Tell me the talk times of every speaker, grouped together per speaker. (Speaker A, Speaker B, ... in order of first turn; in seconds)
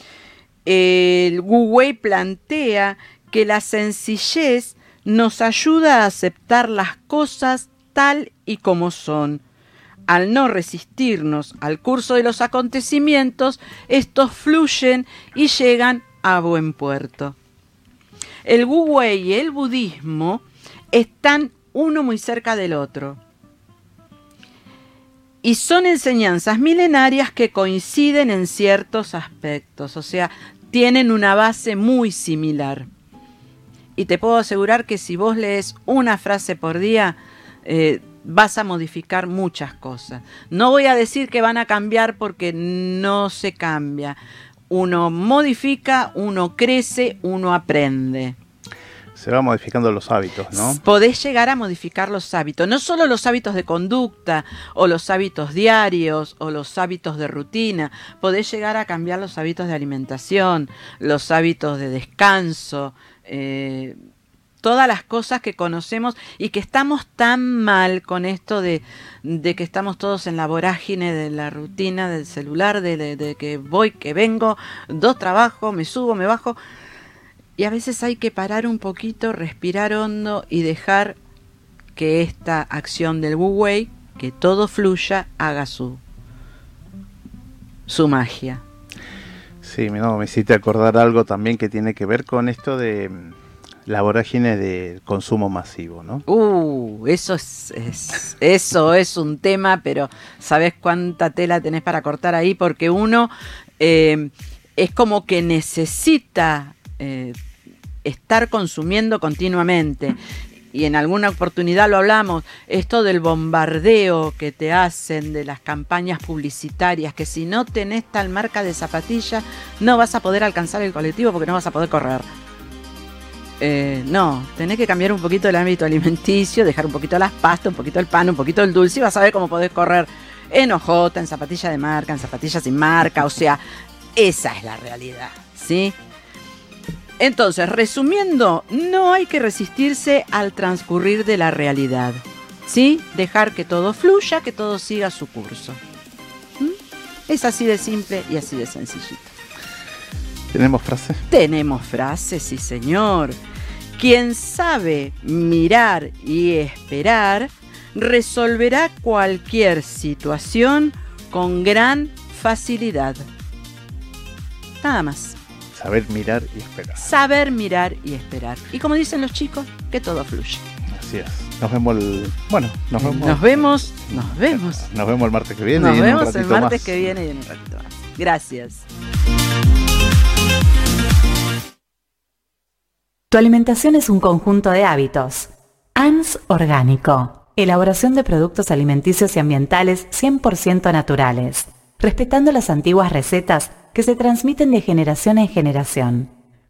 Speaker A: 0.6-9.4, 10.1-17.4, 18.4-23.2, 25.4-32.9, 34.0-44.2, 44.7-48.4, 50.5-63.9, 64.6-76.6, 77.6-81.2, 82.0-86.0, 87.9-88.6, 96.3-107.4, 108.0-110.2, 110.7-122.2, 123.6-133.6, 134.1-135.9, 137.2-145.8, 147.3-149.3, 151.3-153.4, 154.0-163.2, 164.8-165.4, 167.0-170.6, 173.0-174.9, 175.7-178.8
Speaker B: 49.1-50.8, 89.6-93.3, 93.8-96.2, 150.5-151.2, 165.7-167.1, 170.9-177.0
Speaker C: 183.3-196.3